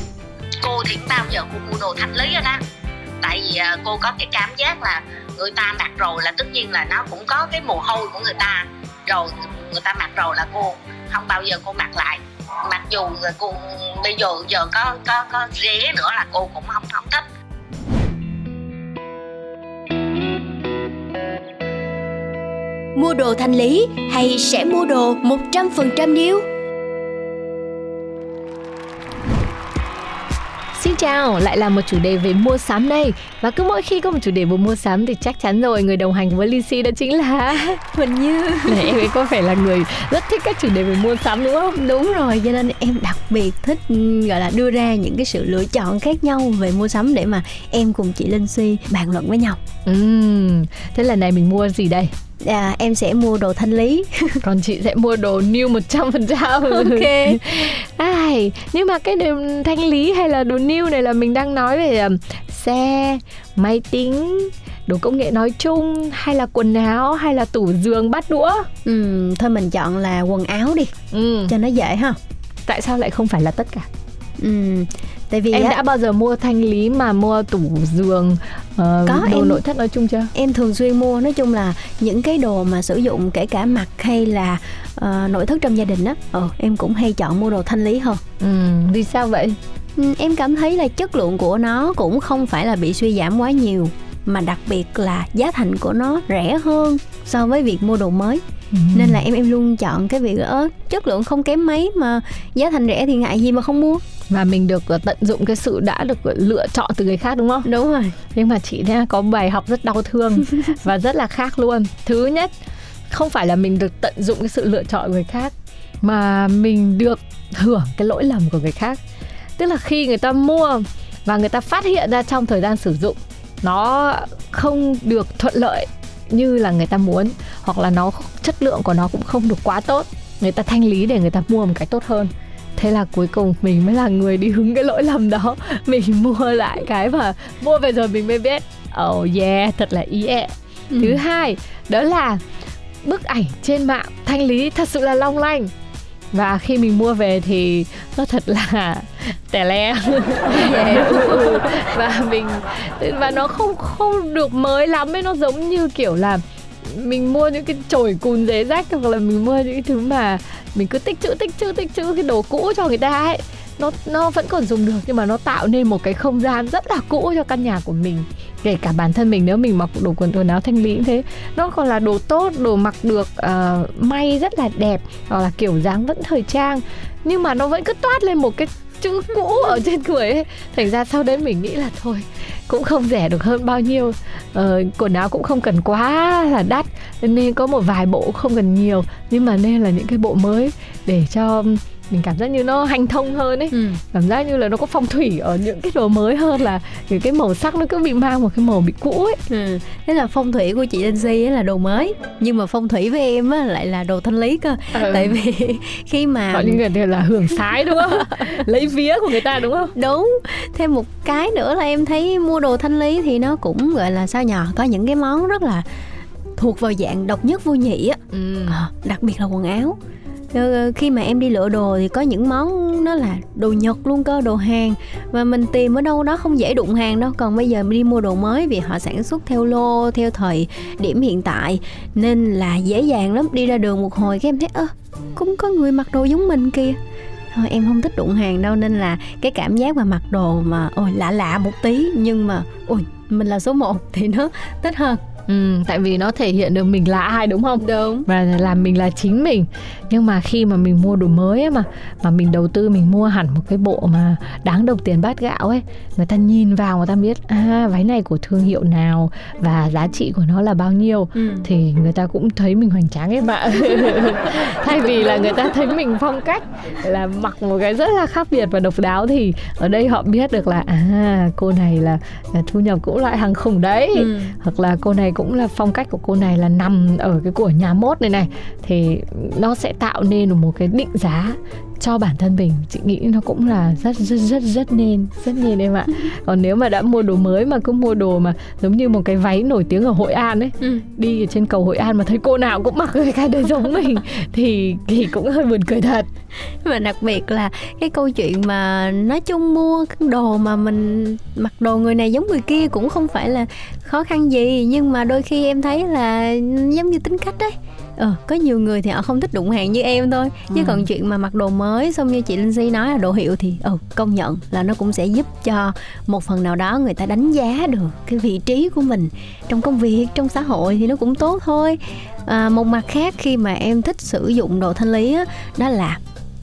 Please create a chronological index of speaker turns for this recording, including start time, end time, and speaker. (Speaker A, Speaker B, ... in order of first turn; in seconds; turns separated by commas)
Speaker A: 0.6-2.6, Speaker A: 3.2-17.3, Speaker B: 23.0-26.3, Speaker C: 30.7-37.8, Speaker B: 37.8-39.0, Speaker C: 38.7-41.8, Speaker B: 41.7-49.6, Speaker C: 49.9-52.1, Speaker B: 52.4-54.4, Speaker C: 54.4-68.7, Speaker B: 56.6-57.5, Speaker B: 68.8-70.9, Speaker C: 71.1-71.5, Speaker B: 71.5-72.2, Speaker C: 72.7-73.9, Speaker B: 74.4-75.8, Speaker C: 75.5-80.3, Speaker B: 79.1-79.6, Speaker B: 80.3-88.2, Speaker C: 88.4-89.6, Speaker B: 90.0-98.4, Speaker C: 98.7-99.2, Speaker B: 98.9-104.0, Speaker C: 104.3-107.7, Speaker B: 107.6-108.2, Speaker C: 108.3-112.5, Speaker C: 113.1-119.0, Speaker C: 119.6-142.4, Speaker B: 140.9-141.2, Speaker C: 143.0-145.7, Speaker C: 146.3-199.4, Speaker B: 150.5-151.8, Speaker B: 193.7-194.0, Speaker B: 199.5-206.8, Speaker C: 204.9-205.4, Speaker C: 206.5-209.9, Speaker B: 209.9-215.8, Speaker B: 216.6-220.0, Speaker C: 218.3-218.8, Speaker B: 220.5-237.0, Speaker B: 237.5-245.2, Speaker C: 245.5-296.3, Speaker B: 247.8-248.3, Speaker B: 261.4-261.6, Speaker B: 274.1-274.5, Speaker B: 296.8-326.2, Speaker C: 310.7-311.1